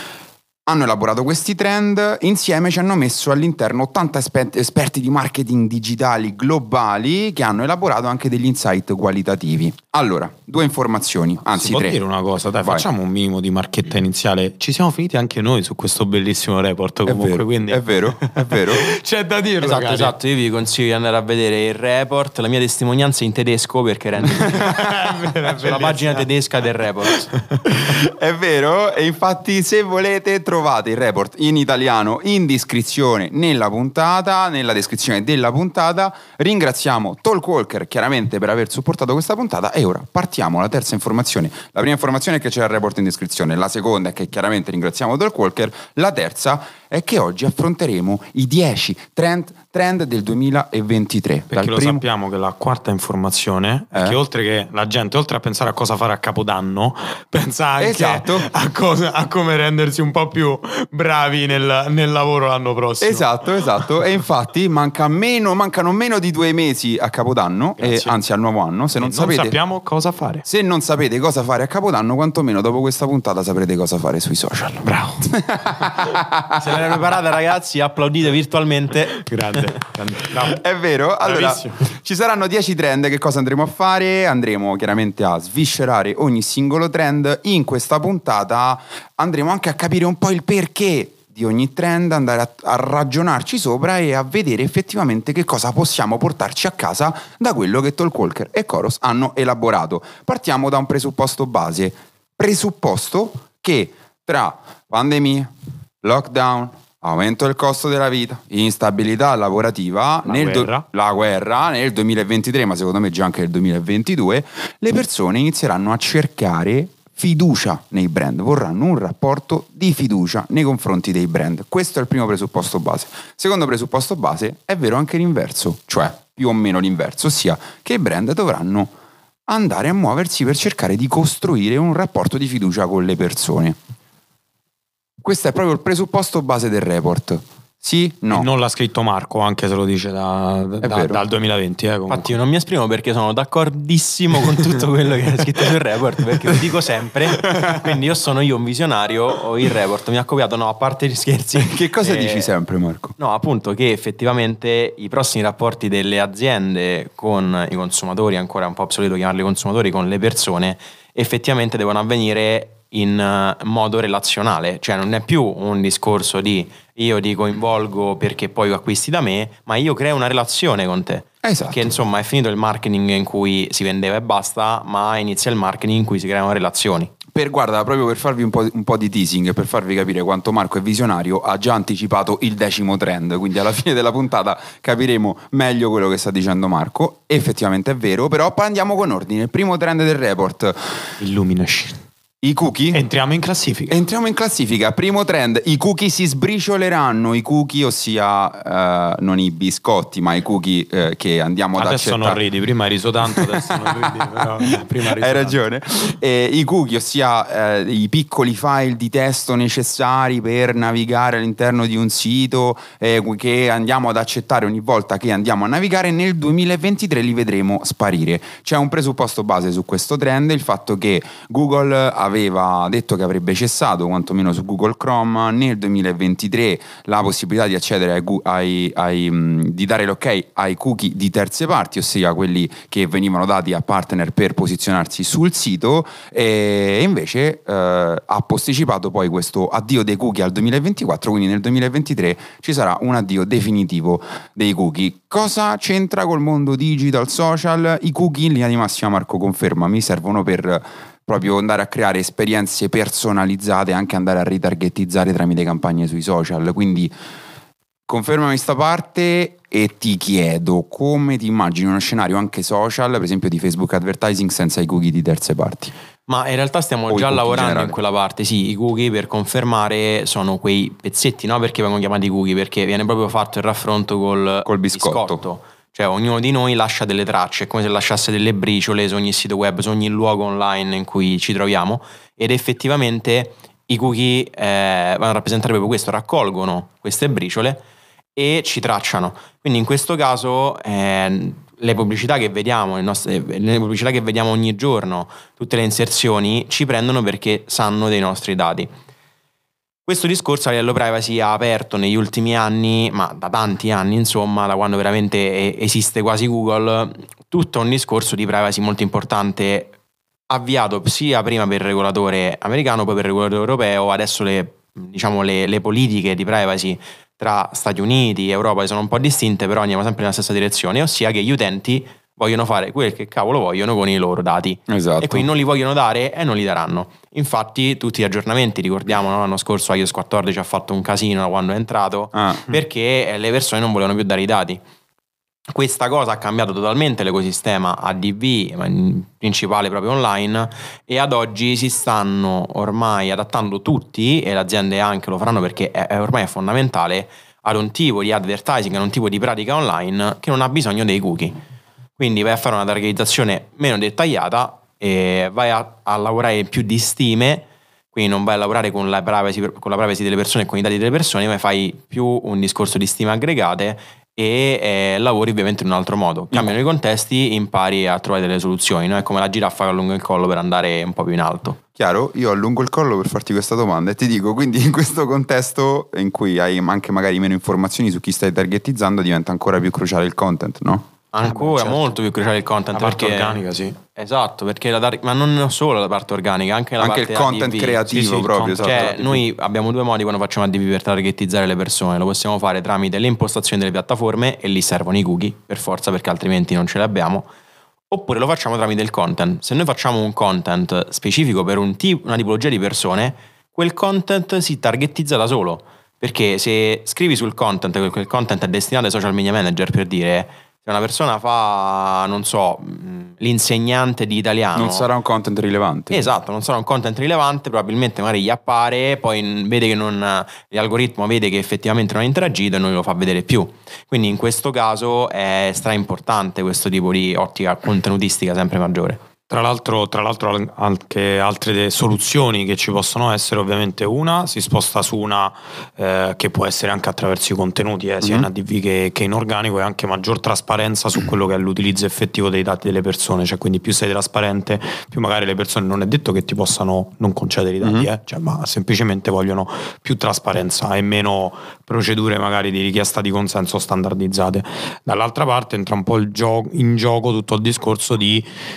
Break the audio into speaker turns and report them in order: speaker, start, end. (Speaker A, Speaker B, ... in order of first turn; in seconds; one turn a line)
Speaker A: 0.7-12.0
Speaker B: 11.5-20.1
Speaker A: 12.6-12.9
Speaker A: 17.1-18.9
Speaker C: 19.6-24.8
Speaker B: 24.3-26.3
Speaker C: 25.5-27.3
Speaker A: 27.8-52.0
Speaker B: 51.5-63.9
Speaker A: 53.9-54.2
Speaker A: 57.8-58.5
Speaker A: 63.0-69.6
Speaker B: 67.8-68.2
Speaker B: 69.0-70.5
Speaker A: 70.5-77.0
Speaker B: 74.8-75.3
Speaker C: 76.6-79.8
Speaker B: 79.3-80.6
Speaker A: 80.5-105.5
Speaker B: 81.2-81.8
Speaker A: 106.0-128.9
Speaker B: 110.2-110.8
Speaker A: 129.5-133.8
Speaker A: 135.2-138.5
Speaker B: 138.3-142.3
Speaker A: 140.8-141.2
Speaker C: 142.1-152.5
Speaker A: 147.5-147.8
Speaker A: 151.6-153.2
Speaker C: 153.2-177.1
Speaker A: 171.4-171.9
Speaker A: 177.3-191.0
Speaker B: 191.2-192.0
Speaker A: 192.4-193.0
Speaker B: 192.9-194.0
Speaker A: 193.9-202.4
Speaker B: 201.8-205.6
Speaker A: 203.3-257.1
Speaker A: 258.1-265.9
Speaker C: 266.3-287.8
Speaker A: 267.1-268.0
Speaker A: 274.6-275.4
Speaker C: 288.4-298.9
Speaker C: 300.1-309.9
Speaker C: 310.5-334.8
Speaker A: 324.9-325.5
Speaker A: 332.4-332.8
Speaker C: 335.7-351.6
Speaker C: 352.2-371.8
Speaker A: 372.0-381.1
Speaker C: 381.3-383.6
Speaker B: 381.4-382.1
Speaker B: 382.9-384.0
Speaker C: 384.1-388.0
Speaker A: 387.0-389.1
Speaker B: 388.1-389.4
Speaker C: 388.8-397.5
Speaker C: 398.1-415.1
Speaker A: 414.8-416.3
Speaker C: 416.1-429.2
Speaker B: 429.5-458.5
Speaker A: 438.2-438.5
Speaker A: 447.8-448.1